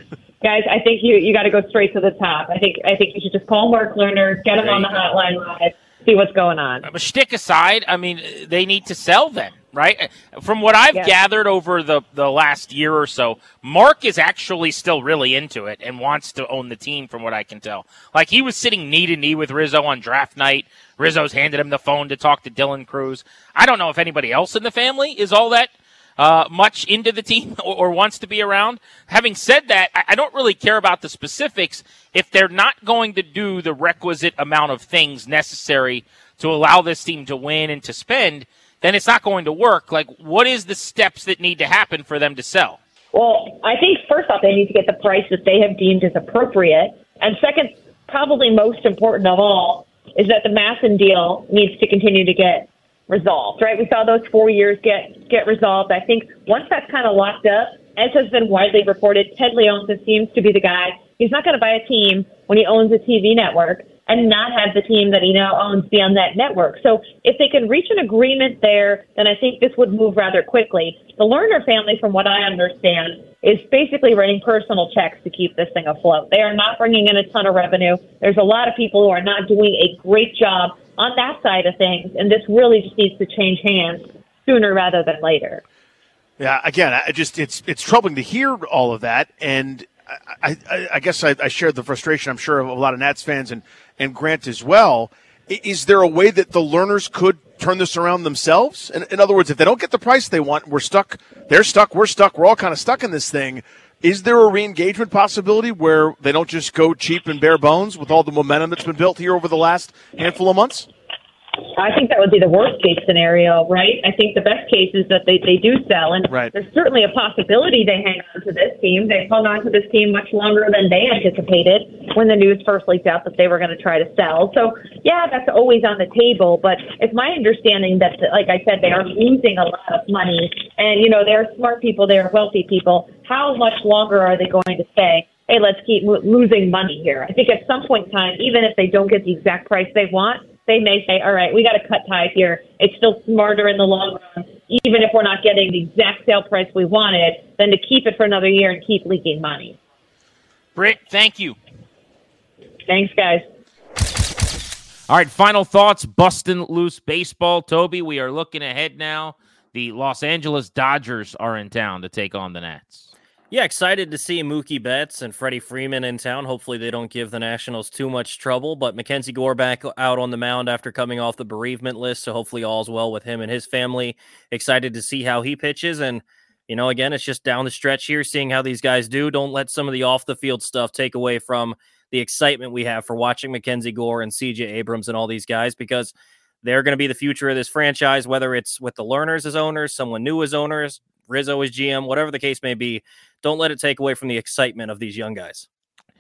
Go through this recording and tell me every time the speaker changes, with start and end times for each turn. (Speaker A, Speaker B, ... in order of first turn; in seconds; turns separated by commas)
Speaker A: 0.4-6.9, Speaker B: 4.6-5.0, Speaker B: 6.8-42.8, Speaker A: 43.1-85.6, Speaker C: 86.4-110.9, Speaker A: 111.8-149.8, Speaker B: 150.8-151.6, Speaker A: 152.9-153.5, Speaker B: 155.1-163.1, Speaker D: 163.5-195.7